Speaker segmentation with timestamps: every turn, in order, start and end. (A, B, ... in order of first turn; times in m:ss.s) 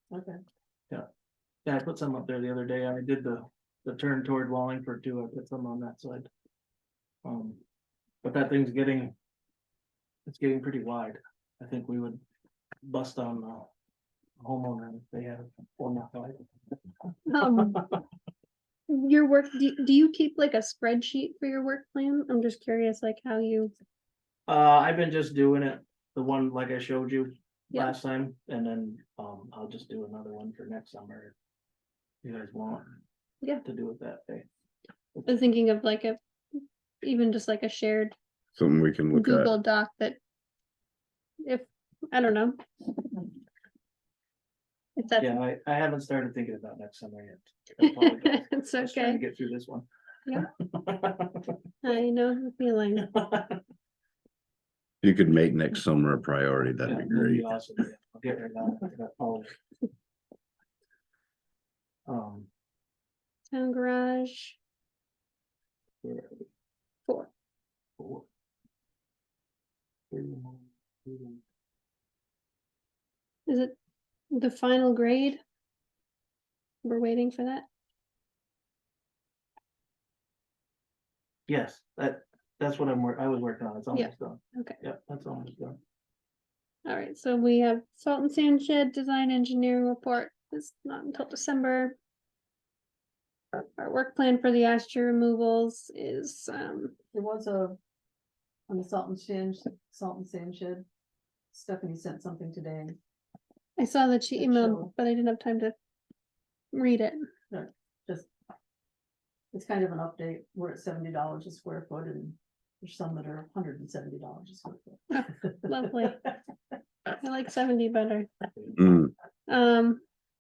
0:00.1-0:00.4 A
0:01.6-0:06.3 B
0:07.2-0:07.6 B
0:08.2-0:09.1 B
0:10.3-0:12.2 B
0:12.8-0:13.7 B
0:14.4-0:16.4 B
0:17.3-0:17.9 C
0:17.4-0:18.0 B
0:18.9-0:23.7 C
0:24.5-0:31.4 B
0:32.2-0:33.0 B
0:33.6-0:34.5 B
0:35.3-0:36.2 C
0:37.0-0:38.2 C
0:38.6-0:39.5 D
0:39.1-0:40.2 C
0:41.4-0:42.9 C
0:45.0-0:45.4 C
0:45.2-0:49.9 B
0:47.8-0:49.2 C
0:50.6-0:51.6 B
0:51.8-0:53.1 C
0:53.0-0:53.6 B
0:55.0-0:57.5 D
0:56.9-0:59.5 B
1:02.1-1:02.5 B
1:03.5-1:04.6 C
1:06.0-1:06.5 B
1:08.0-1:08.3 B
1:10.1-1:11.4 B
1:13.5-1:13.8 C
1:14.3-1:15.4 C
1:16.8-1:17.7 C
1:21.5-1:25.8 B
1:23.9-1:24.8 C
1:26.9-1:32.0 C
1:33.8-1:37.0 C
1:37.1-1:37.8 A
1:38.7-1:40.9 A
1:41.5-1:43.0 A
1:43.8-1:45.7 C
1:44.4-1:44.9 A
1:46.7-1:47.2 C
1:47.5-1:48.3 A
1:49.5-1:56.3 A
1:55.1-1:56.2 C
1:57.1-1:58.3 C
1:58.8-1:59.1 D
1:59.5-2:00.0 C